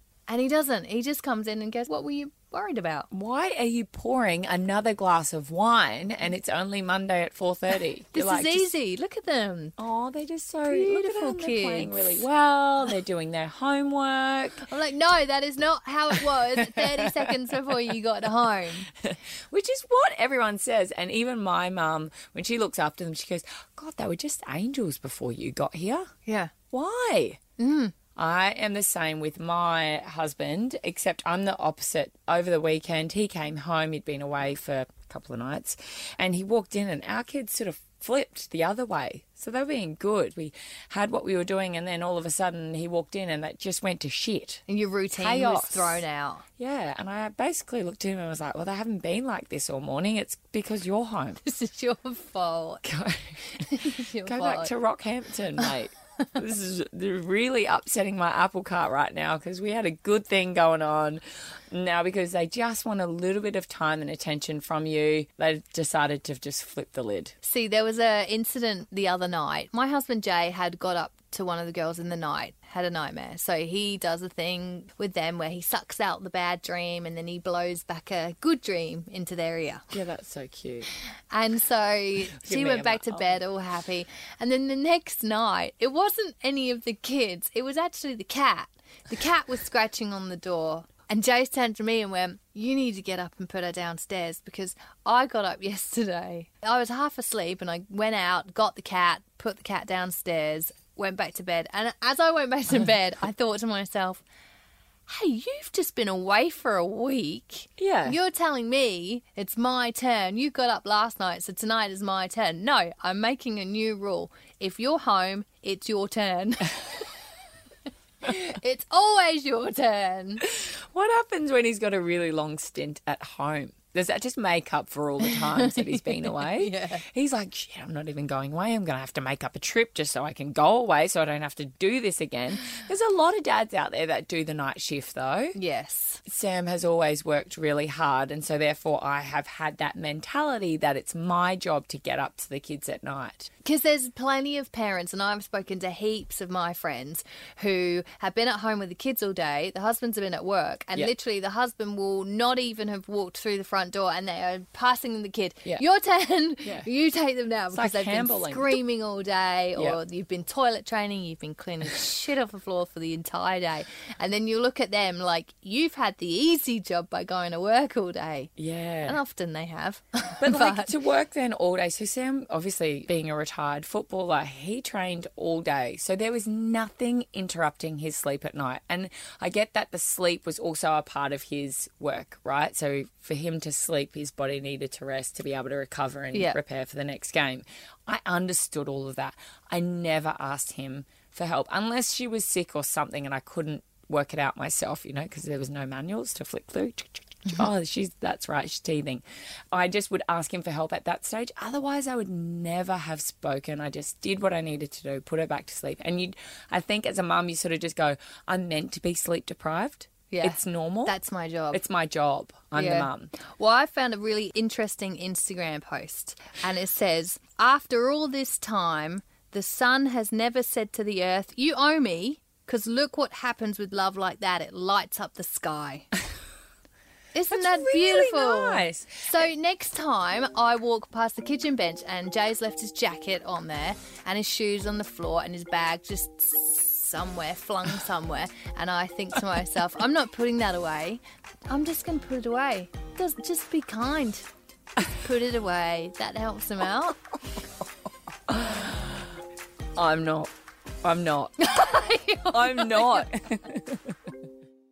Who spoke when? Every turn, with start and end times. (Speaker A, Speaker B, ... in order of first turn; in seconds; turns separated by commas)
Speaker A: 0.3-3.1, Speaker B: 3.1-8.7, Speaker A: 8.1-9.8, Speaker B: 9.8-14.6, Speaker A: 10.7-12.2, Speaker A: 14.6-18.9, Speaker B: 16.4-17.9, Speaker B: 19.0-26.1, Speaker A: 26.3-26.5, Speaker B: 26.7-27.4, Speaker A: 27.6-27.9, Speaker B: 28.2-44.6, Speaker A: 44.7-46.4, Speaker B: 45.1-46.0, Speaker B: 46.6-51.4, Speaker A: 51.4-52.8, Speaker B: 52.8-67.3, Speaker A: 53.5-54.7, Speaker A: 67.4-79.8, Speaker B: 79.9-80.9, Speaker A: 81.3-104.2, Speaker B: 82.4-83.4, Speaker A: 105.1-117.1, Speaker B: 107.8-108.2, Speaker A: 118.2-120.4, Speaker B: 120.4-135.6, Speaker A: 125.2-127.0, Speaker A: 135.6-136.2, Speaker B: 136.3-143.5, Speaker A: 143.6-168.5, Speaker B: 157.7-158.8, Speaker B: 168.6-169.2, Speaker A: 169.1-170.9, Speaker B: 170.4-211.2, Speaker A: 186.3-186.6, Speaker A: 210.3-211.8, Speaker B: 211.7-213.3, Speaker A: 212.8-226.1, Speaker A: 227.3-244.5, Speaker B: 227.5-229.3, Speaker A: 245.1-247.2, Speaker B: 248.5-249.3, Speaker B: 250.0-250.5, Speaker B: 251.0-254.2, Speaker A: 251.6-253.3